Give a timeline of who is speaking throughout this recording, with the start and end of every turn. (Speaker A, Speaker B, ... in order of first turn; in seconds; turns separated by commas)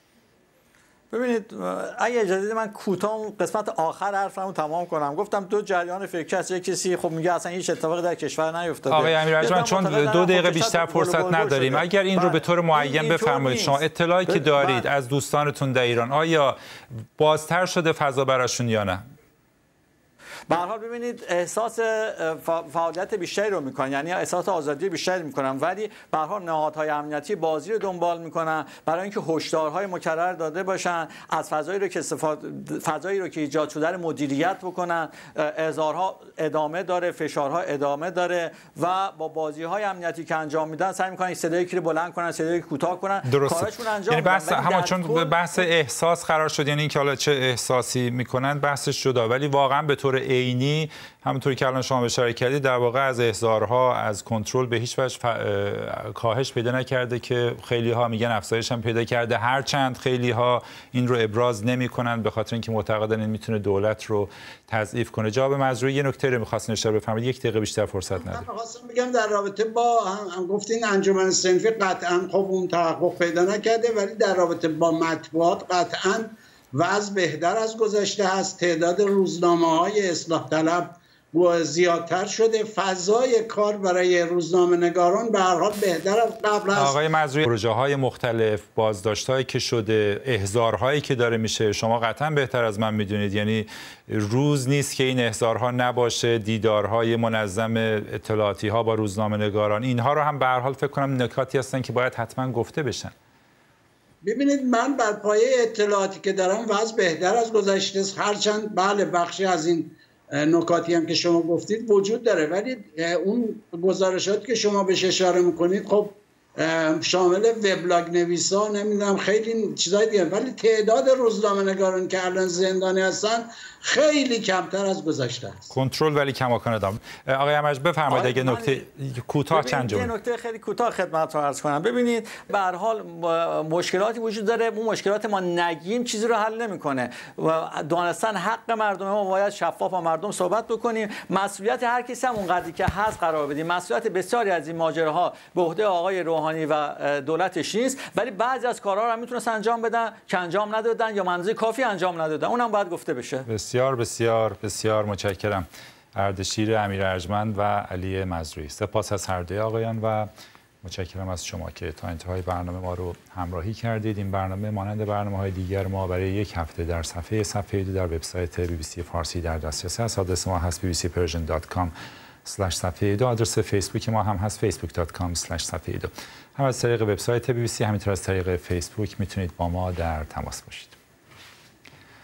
Speaker A: 1.1-14.8, Speaker B: 8.9-16.6, Speaker B: 17.2-19.0, Speaker A: 20.5-45.7, Speaker B: 43.2-68.4, Speaker C: 68.1-87.0, Speaker B: 86.7-103.1, Speaker C: 104.2-125.7, Speaker B: 125.7-130.1, Speaker A: 128.1-128.9, Speaker A: 129.5-153.5, Speaker B: 153.5-160.3, Speaker B: 160.8-171.9, Speaker B: 172.4-180.9